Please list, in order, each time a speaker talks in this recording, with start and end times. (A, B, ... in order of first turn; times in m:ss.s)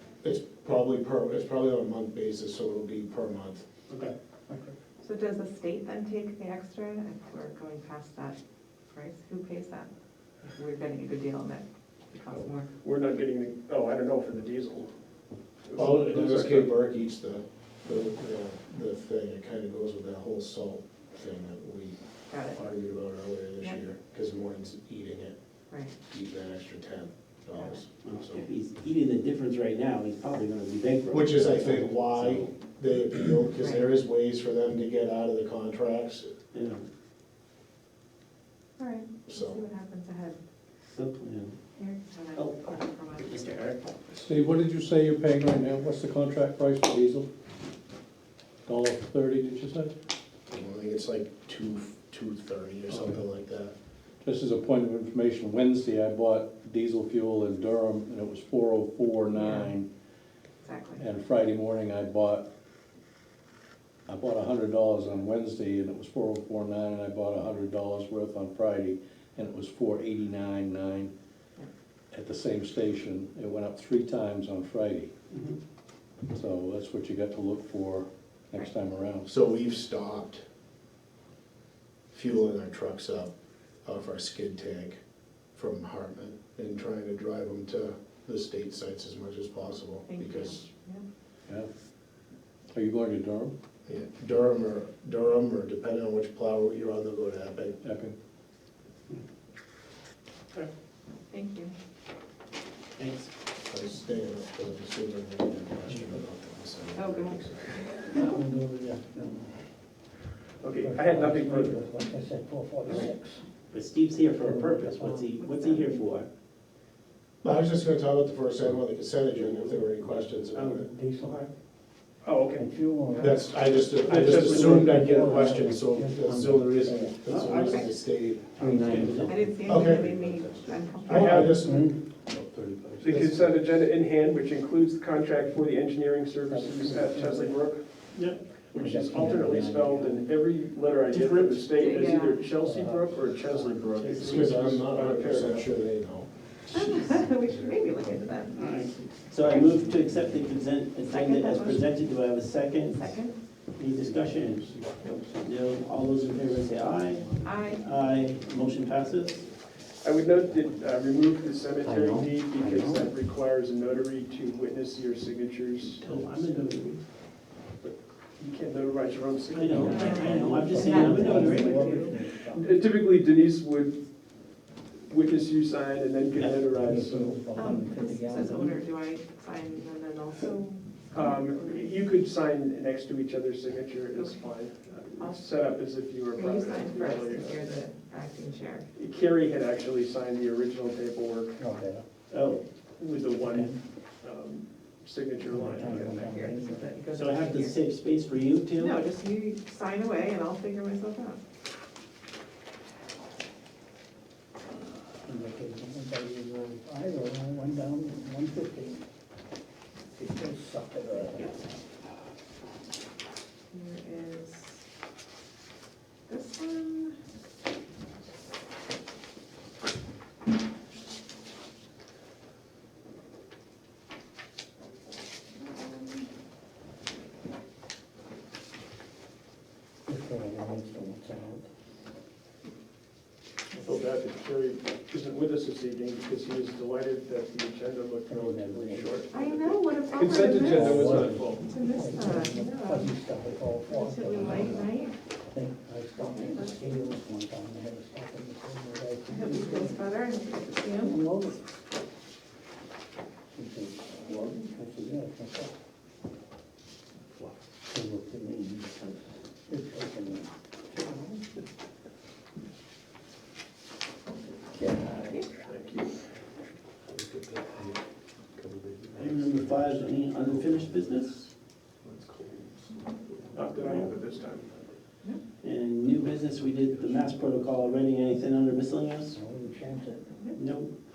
0:00.2-0:03.6 A
0:04.5-0:04.7 B
0:05.0-0:08.4 C
0:08.9-0:09.9 C
0:10.5-0:12.7 C
0:12.3-0:14.9 D
0:15.6-0:16.7 D
0:15.7-0:25.3 A
0:22.3-0:22.6 C
0:25.7-0:25.9 C
0:26.1-0:28.5 A
0:27.5-0:27.8 C
0:28.0-0:32.5 E
0:31.1-0:36.3 A
0:33.6-0:33.9 C
0:36.5-0:36.8 E
0:38.8-0:40.4 C
0:39.3-0:39.6 A
0:40.8-0:41.6 E
0:41.8-0:43.5 C
0:42.3-0:43.8 E
0:44.1-0:47.3 F
0:48.6-0:49.9 F
0:50.5-0:53.7 A
0:54.2-0:59.9 F
0:59.3-0:59.7 C
1:00.6-1:01.0 C
1:01.0-1:02.5 F
1:04.1-1:11.1 F
1:12.1-1:15.1 F
1:15.3-1:15.6 E
1:16.3-1:19.3 F
1:19.2-1:20.4 A
1:22.1-1:23.3 A
1:23.8-1:25.0 A
1:25.5-1:30.7 A
1:30.1-1:31.0 C
1:32.7-1:33.5 F
1:33.9-1:37.8 A
1:37.8-1:38.2 F
1:41.3-1:41.7 C
1:43.0-1:43.3 E
1:43.7-1:47.9 A
1:46.9-1:48.3 C
1:48.1-1:49.6 B
1:50.6-1:51.8 D
1:50.8-1:53.5 B
1:53.7-1:56.3 E
1:54.4-1:55.4 B
1:55.4-1:56.0 C
1:57.4-2:00.9 A
1:59.3-2:00.1 E
2:00.5-2:01.5 B
2:02.2-2:02.7 D
2:02.5-2:07.2 B
2:03.1-2:03.4 C
2:03.2-2:08.6 A
2:04.0-2:05.5 D
2:04.1-2:04.8 E
2:07.2-2:08.0 E
2:07.6-2:07.9 C
2:08.6-2:09.4 E
2:08.6-2:09.8 B
2:09.2-2:11.7 C
2:09.6-2:10.4 A
2:09.9-2:10.5 F
2:11.0-2:11.9 A
2:11.1-2:11.4 D
2:11.1-2:12.1 B
2:12.2-2:13.7 F
2:13.0-2:18.1 D
2:13.0-2:13.4 A
2:16.4-2:17.7 B
2:18.1-2:18.4 E
2:18.7-2:25.8 D
2:18.7-2:20.5 B
2:21.1-2:21.7 E
2:21.7-2:22.4 C
2:22.4-2:23.7 B
2:23.9-2:24.7 E
2:24.1-2:26.3 A
2:26.7-2:28.7 C
2:27.1-2:27.7 F
2:27.9-2:28.6 B
2:28.5-2:33.1 E
2:29.3-2:29.7 C
2:29.5-2:30.4 F
2:29.6-2:30.0 B
2:31.0-2:32.1 C
2:32.7-2:33.4 C
2:33.7-2:37.3 E
2:34.0-2:35.4 F
2:36.1-2:38.7 F
2:37.4-2:37.8 C
2:37.8-2:39.5 E
2:40.0-2:46.6 D
2:40.3-2:40.9 F
2:41.8-2:43.1 B
2:45.8-2:47.0 E
2:47.8-2:50.3 D
2:49.5-2:51.8 E
2:49.6-2:52.9 B
2:49.8-2:52.2 C
2:52.5-2:54.1 D
2:55.0-2:57.4 D
2:56.3-2:56.7 E
2:56.4-2:58.8 B
2:57.5-3:02.0 C
3:01.1-3:07.7 D
3:04.2-3:04.6 C
3:05.2-3:05.5 C
3:06.3-3:08.9 C
3:08.9-3:11.6 D
3:11.6-3:12.0 B
3:12.3-3:12.6 E
3:13.0-3:16.3 D
3:13.4-3:13.8 B
3:15.4-3:17.0 B
3:15.8-3:17.8 C
3:17.1-3:19.0 E
3:18.7-3:21.4 C
3:25.2-3:29.1 B
3:30.1-3:31.5 B
3:31.3-3:31.6 C
3:33.7-3:34.8 C
3:36.3-3:37.2 C
3:45.7-3:46.2 C
3:50.1-3:51.7 B
3:53.8-4:01.6 D
3:58.2-3:59.2 B
3:59.3-4:03.1 C
4:00.6-4:10.1 B
4:03.9-4:05.2 C
4:06.2-4:07.1 C
4:09.3-4:11.2 C
4:10.9-4:11.7 B
4:13.5-4:15.7 B
4:17.8-4:21.4 B
4:24.6-4:25.5 B
4:25.3-4:25.6 C
4:25.6-4:26.3 D
4:27.0-4:35.0 F
4:29.2-4:31.4 E
4:33.5-4:34.7 D
4:35.6-4:39.4 E
4:36.0-4:38.1 F
4:39.3-4:40.4 B
4:40.5-4:40.9 E